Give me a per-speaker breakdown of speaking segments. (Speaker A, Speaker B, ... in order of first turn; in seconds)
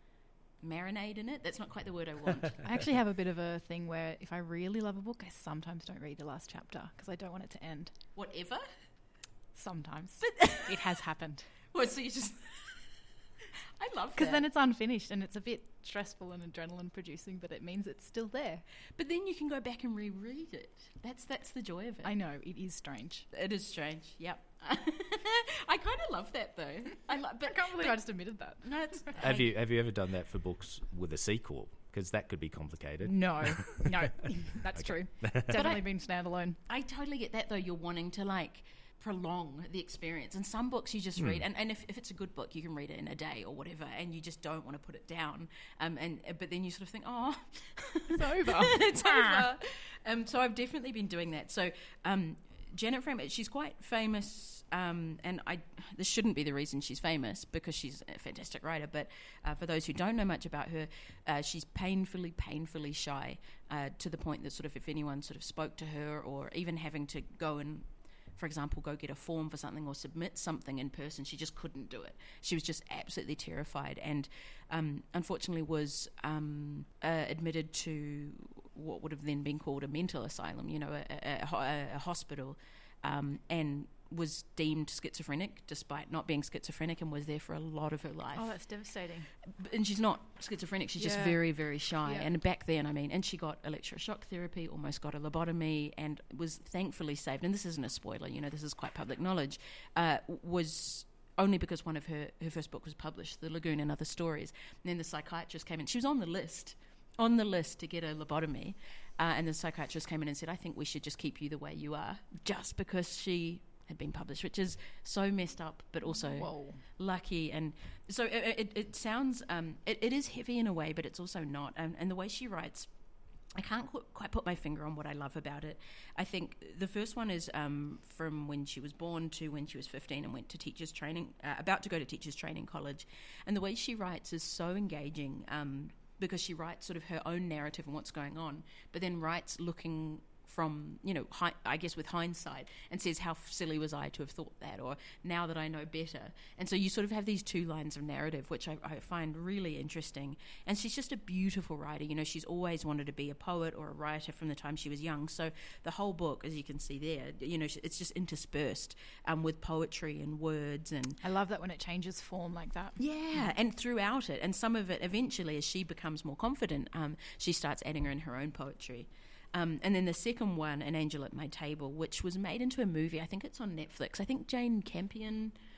Speaker A: 0.6-2.6, 8.2-8.6, 10.2-11.1, 11.7-12.9, 13.8-14.5, 19.0-22.1, 23.3-28.0, 28.6-29.5, 35.5-35.9, 36.7-88.6, 89.5-122.9, 123.5-161.2, 163.0-175.6
Speaker B: 2.6-8.0, 9.6-11.5, 14.2-18.6, 22.0-23.3, 27.4-29.3, 33.0-36.6, 48.1-49.5, 88.3-89.3, 91.0-91.5, 92.0-92.3, 116.1-116.8, 161.2-163.4
Speaker C: 29.2-33.9, 34.7-35.7, 41.2-41.4